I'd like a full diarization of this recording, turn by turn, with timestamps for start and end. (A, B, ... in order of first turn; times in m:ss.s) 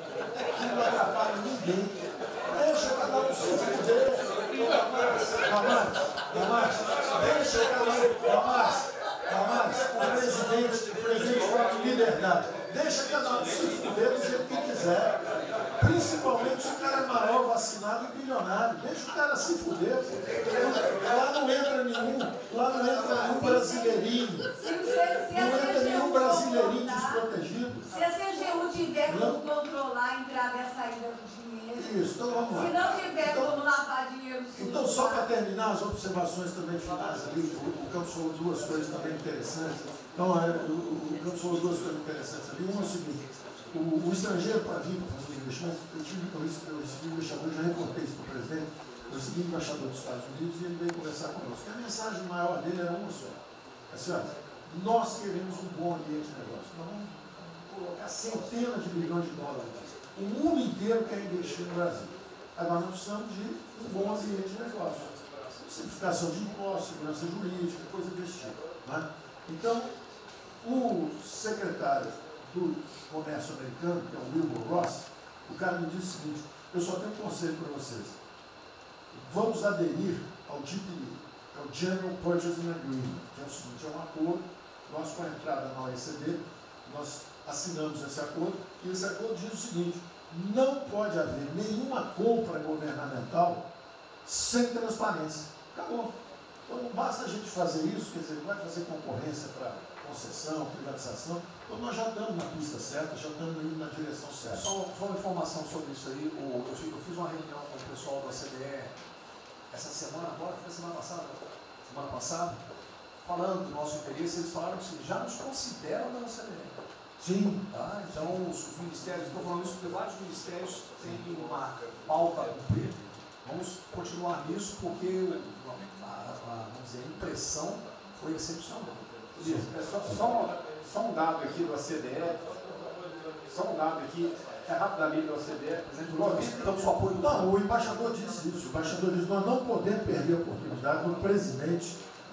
0:00.5-0:02.0 A
0:02.5-0:15.2 A
0:15.8-0:24.5 A
0:23.4-0:23.9 B
0:24.6-0:27.2 B
0:25.3-0:27.9 A
0:27.9-0:31.9 B
0:29.1-0:29.4 A
0:31.7-0:33.6 A
0:32.5-0:35.3 B
0:34.5-0:53.4 A
0:53.9-1:09.9 A
1:10.6-1:18.2 A
1:19.1-1:33.7 A
1:34.2-1:36.1 A
1:36.7-1:44.7 A
1:44.5-1:49.0 C
1:49.7-1:52.6 C
1:53.2-1:56.8 C
1:57.2-1:57.6 A
1:57.7-2:09.0 C
2:09.4-2:12.4 D
2:13.5-2:16.9 D
2:15.9-2:17.5 C
2:17.2-2:22.0 A